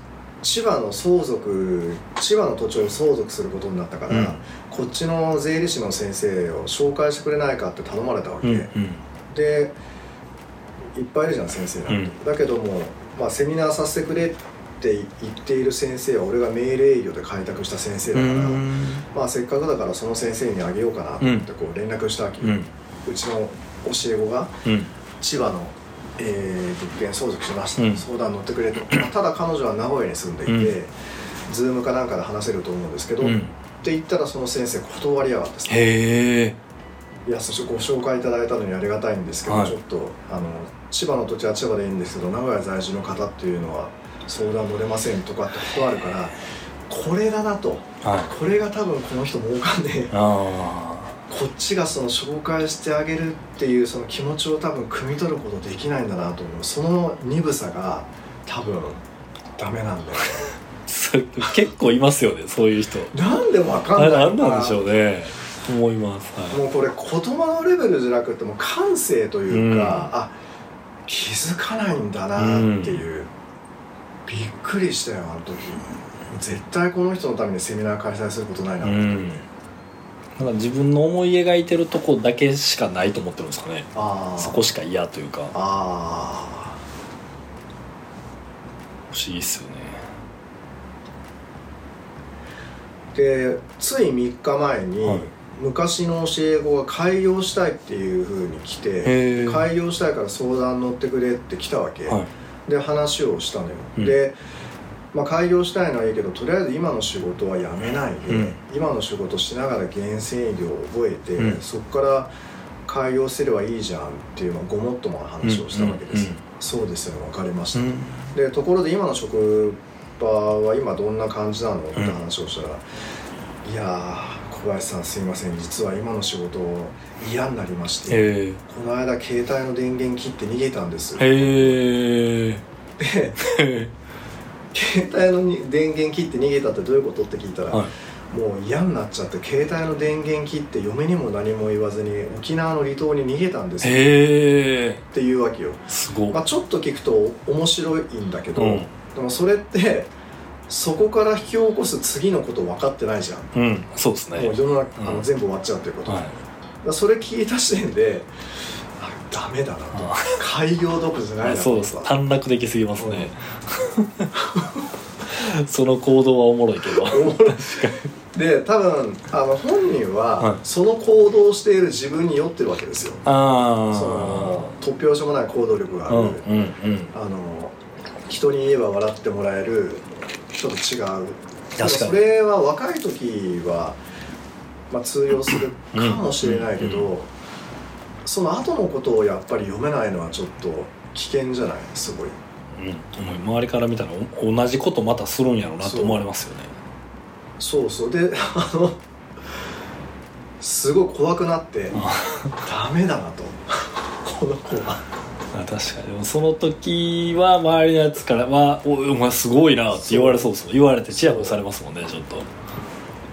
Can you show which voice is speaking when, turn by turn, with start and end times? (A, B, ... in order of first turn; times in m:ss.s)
0:00.4-0:08.7 A
0:04.1-0:04.4 B
0:08.4-0:09.0 B
0:09.3-0:09.8 A
0:11.0-0:24.6 A
0:11.9-0:12.1 B
0:18.1-0:19.1 B
0:21.2-0:21.5 B
0:22.4-0:22.7 B
0:24.6-0:24.9 B
0:25.2-0:30.9 A
0:27.8-0:28.0 B
0:30.5-0:30.7 B
0:31.5-0:35.9 A
0:33.2-0:33.5 B
0:35.7-0:36.6 B
0:37.3-0:50.2 A
0:39.5-0:39.8 B
0:48.0-0:48.3 B
0:50.1-0:51.2 B
0:51.3-0:59.0 A
0:59.6-1:00.5 A
1:00.9-1:03.1 B
1:03.1-1:04.8 A
1:04.0-1:06.6 B
1:06.5-1:10.3 A
1:09.5-1:10.1 B
1:11.1-1:13.3 A
1:12.4-1:13.0 B
1:14.3-1:19.4 A
1:18.8-1:19.4 B
1:20.4-1:25.5 B
1:23.9-1:24.7 A
1:25.5-1:26.8 A
1:29.1-1:30.0 B
1:33.1-1:44.4 A
1:35.0-1:35.3 B
1:39.0-1:39.7 B
1:45.1-1:52.3 A
1:48.3-1:48.6 B
1:52.9-2:02.8 A
1:55.4-1:56.4 B
1:57.8-1:58.4 B
2:01.9-2:02.2 B
2:03.6-2:11.8 A
2:08.1-2:08.6 B
2:11.2-2:12.6 B
2:13.0-2:13.4 A
2:13.4-2:13.9 B
2:14.7-2:24.1 A
2:23.8-2:25.0 B
2:25.1-2:30.1 A
2:25.9-2:26.4 B
2:28.6-2:28.9 B
2:30.7-2:33.6 A
2:33.5-2:35.2 B
2:34.4-2:36.2 A
2:36.1-2:36.4 B
2:36.8-2:38.3 A
2:38.9-2:42.2 A
2:39.9-2:40.4 B
2:41.4-2:44.3 B
2:43.0-2:43.3 A
2:44.4-2:44.8 A
2:45.2-2:48.1 B
2:47.0-2:53.2 A
2:53.2-2:54.7 B
2:53.9-2:56.5 A
2:56.1-2:57.2 B
2:57.1-2:57.8 A
2:58.3-3:04.0 A
3:01.8-3:02.2 B
3:04.9-3:07.3 A
3:05.9-3:07.1 B
3:08.2-3:12.4 A
3:12.7-3:16.7 B
3:15.8-3:16.2 A
3:17.6-3:19.0 A
3:20.6-3:22.0 A
3:21.9-3:22.6 B
3:22.6-3:25.0 A
3:25.5-3:32.5 B
3:29.9-3:30.5 A
3:31.1-3:31.6 A